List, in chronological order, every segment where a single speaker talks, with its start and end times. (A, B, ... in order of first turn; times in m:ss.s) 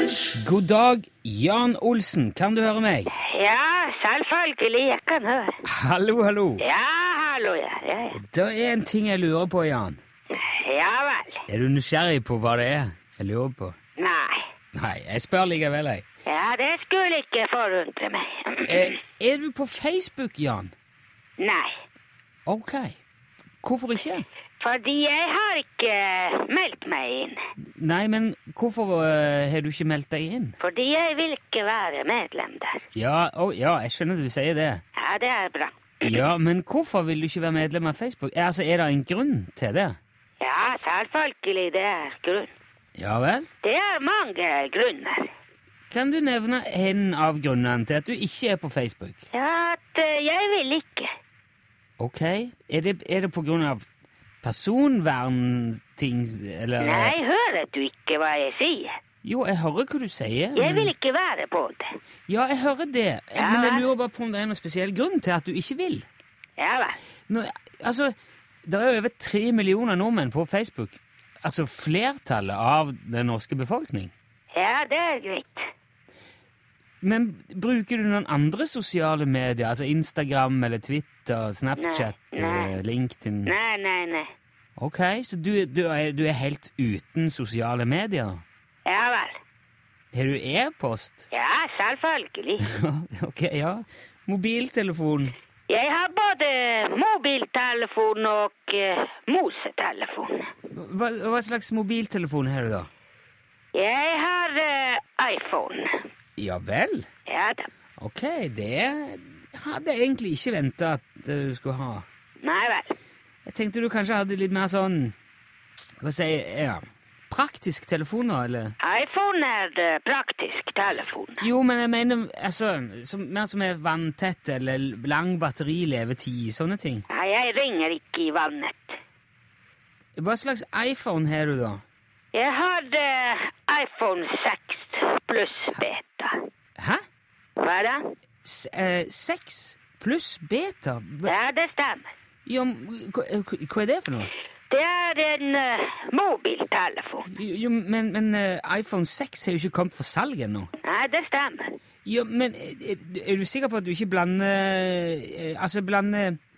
0:00.3-0:03.1 A
0:03.1-0:05.6 B
0:05.6-0:06.6 A
0:06.6-0:08.2 B
0:08.2-0:10.0 A
0:10.3-0:11.4 B
0:11.5-0:13.8 A
0:14.0-0:14.4 B
0:14.7-0:16.0 A
0:16.2-0:18.9 B
0:18.7-0:20.7 A
0:21.4-0:21.7 B
0:22.4-0:23.0 A
0:23.6-0:24.2 A
0:24.6-0:27.4 B
0:27.7-0:30.6 A
0:30.6-0:32.8 B
0:32.9-0:34.8 A
0:35.0-0:36.1 B
0:36.0-0:40.0 A
0:40.4-0:42.5 B
0:43.0-0:43.5 A
0:43.6-0:45.3 B
0:45.9-0:49.2 A
0:49.3-0:51.1 B
0:52.0-0:53.8 A
0:54.4-0:57.1 A
0:56.8-0:59.0 B
0:59.2-1:00.9 A
1:00.6-1:01.9 B
1:02.3-1:06.0 A
1:03.4-1:03.8 B
1:06.6-1:07.0 B
1:07.3-1:08.1 A
1:08.6-1:14.1 A
1:14.5-1:15.6 B
1:17.0-1:23.5 A
1:21.8-1:22.7 B
1:23.4-1:24.3 B
1:24.8-1:28.4 A
1:28.8-1:29.4 B
1:30.1-1:31.3 A
1:31.3-1:32.7 B
1:32.6-1:35.3 A
1:35.7-1:40.5 B
1:40.7-1:42.9 A
1:43.7-1:46.0 B
1:46.4-1:47.1 A
1:47.3-1:47.7 B
1:48.0-1:52.0 A
1:52.4-1:52.9 B
1:53.4-1:55.1 A
1:56.0-1:58.8 A
1:58.8-2:01.4 B
2:01.4-2:07.0 A
2:07.1-2:09.0 B
2:10.2-2:11.8 A
2:12.3-2:16.4 B
2:16.8-2:17.0 A
2:17.6-2:18.1 B
2:18.4-2:21.3 A
2:21.2-2:22.1 B
2:22.4-2:24.3 A
2:24.7-2:27.3 B
2:27.3-2:30.7 A
2:30.8-2:31.8 B
2:32.0-2:36.4 A